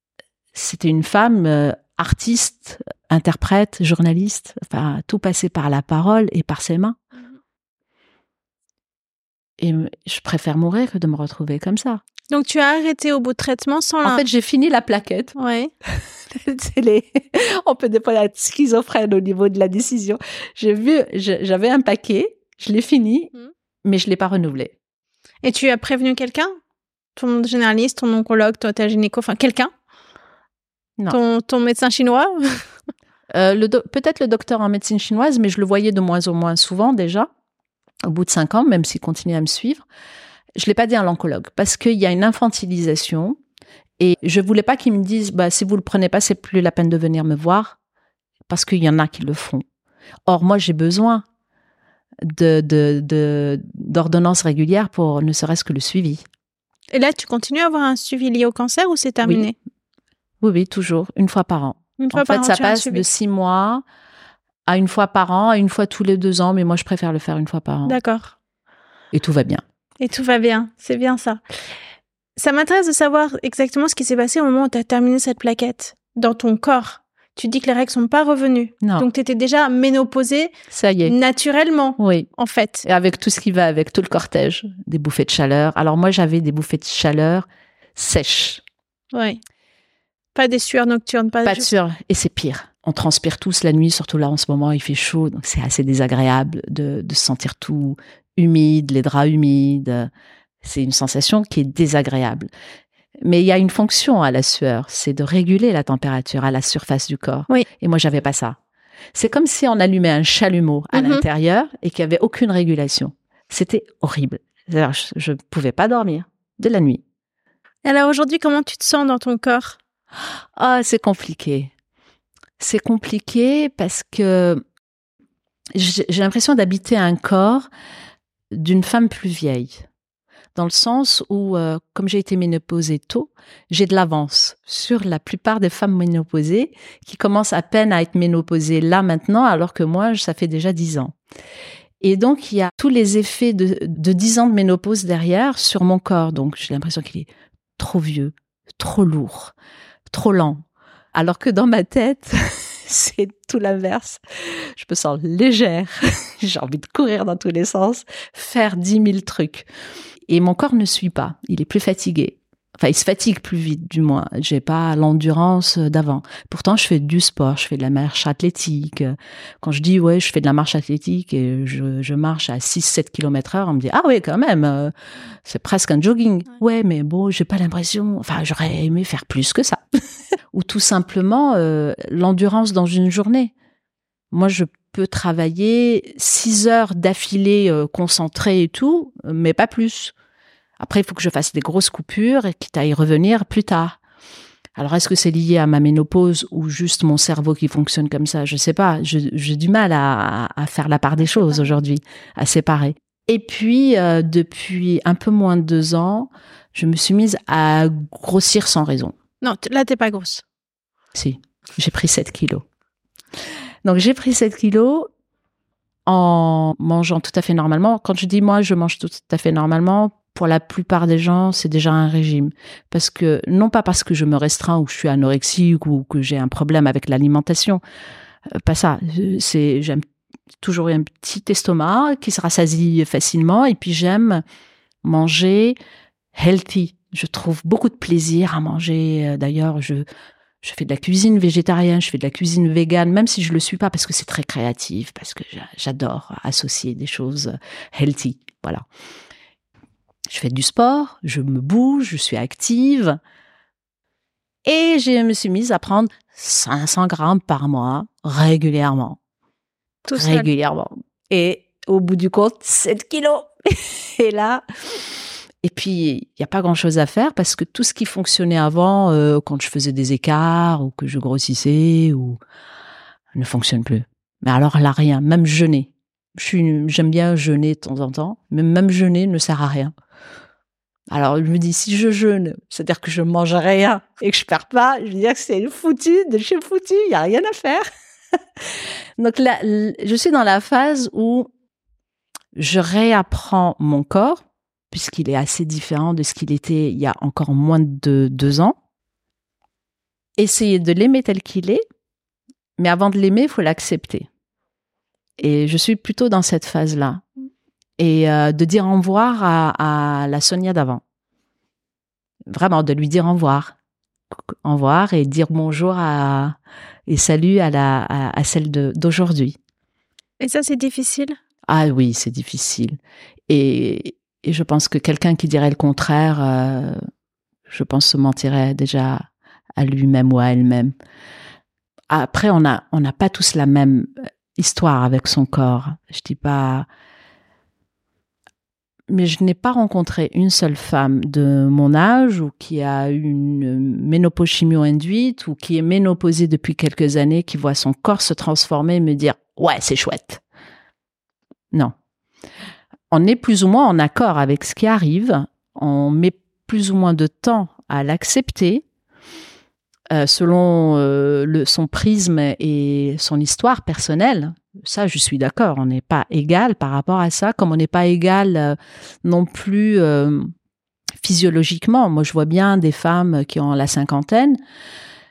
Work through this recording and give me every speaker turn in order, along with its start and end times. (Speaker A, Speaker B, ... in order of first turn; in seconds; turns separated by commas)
Speaker A: 0.5-7.0, Speaker A: 9.6-12.0, Speaker B: 12.3-14.2, Speaker A: 14.0-15.3, Speaker B: 15.4-15.7, Speaker A: 16.0-23.3, Speaker A: 23.9-24.7, Speaker B: 25.4-26.6, Speaker B: 27.2-29.7, Speaker B: 31.1-32.6, Speaker A: 33.3-37.3, Speaker A: 38.0-39.9, Speaker A: 40.6-43.4, Speaker A: 44.0-47.8, Speaker A: 48.5-49.6, Speaker A: 50.3-51.2, Speaker A: 52.2-56.2, Speaker B: 56.9-59.6, Speaker A: 60.4-63.8, Speaker B: 62.0-63.0, Speaker A: 64.7-68.0, Speaker B: 67.8-68.3, Speaker A: 69.1-69.6, Speaker B: 70.0-71.4, Speaker B: 72.4-80.5, Speaker A: 80.7-81.1, Speaker B: 81.0-82.8, Speaker A: 82.0-82.3, Speaker A: 82.8-88.6, Speaker B: 89.1-89.4, Speaker B: 90.3-91.7, Speaker A: 91.5-100.1, Speaker A: 100.6-102.5, Speaker A: 103.2-108.6, Speaker A: 109.1-117.0, Speaker B: 110.9-111.2, Speaker B: 117.8-119.8, Speaker A: 120.6-121.7, Speaker A: 122.6-124.6, Speaker A: 125.7-127.7, Speaker A: 128.5-129.8, Speaker A: 130.6-141.2, Speaker A: 142.0-149.5, Speaker A: 150.1-159.7, Speaker A: 160.3-174.9, Speaker A: 175.4-179.8, Speaker A: 180.5-183.5, Speaker A: 184.3-190.1, Speaker A: 190.8-194.0, Speaker A: 194.8-209.2, Speaker B: 209.4-210.4, Speaker A: 211.1-212.6, Speaker A: 213.8-215.1, Speaker A: 216.1-227.8, Speaker A: 228.5-230.0, Speaker A: 230.6-234.4, Speaker A: 235.0-235.8, Speaker A: 236.3-240.1, Speaker A: 240.6-248.8, Speaker A: 250.3-253.2, Speaker A: 254.7-259.2, Speaker B: 260.1-260.5, Speaker A: 260.1-265.0, Speaker A: 265.6-272.4, Speaker A: 273.4-279.9, Speaker A: 281.1-287.9, Speaker A: 288.6-291.5, Speaker A: 292.6-298.8, Speaker A: 300.4-301.8, Speaker A: 302.8-304.3, Speaker A: 305.4-307.2, Speaker A: 308.0-311.0, Speaker A: 312.5-313.8, Speaker A: 314.6-316.6, Speaker A: 317.1-319.6, Speaker B: 320.4-321.4, Speaker A: 321.7-323.0, Speaker A: 323.5-327.0, Speaker A: 327.7-329.2, Speaker A: 329.8-330.9, Speaker A: 332.1-336.9, Speaker A: 339.1-350.4, Speaker A: 353.1-358.9, Speaker A: 360.1-370.5, Speaker A: 371.2-374.6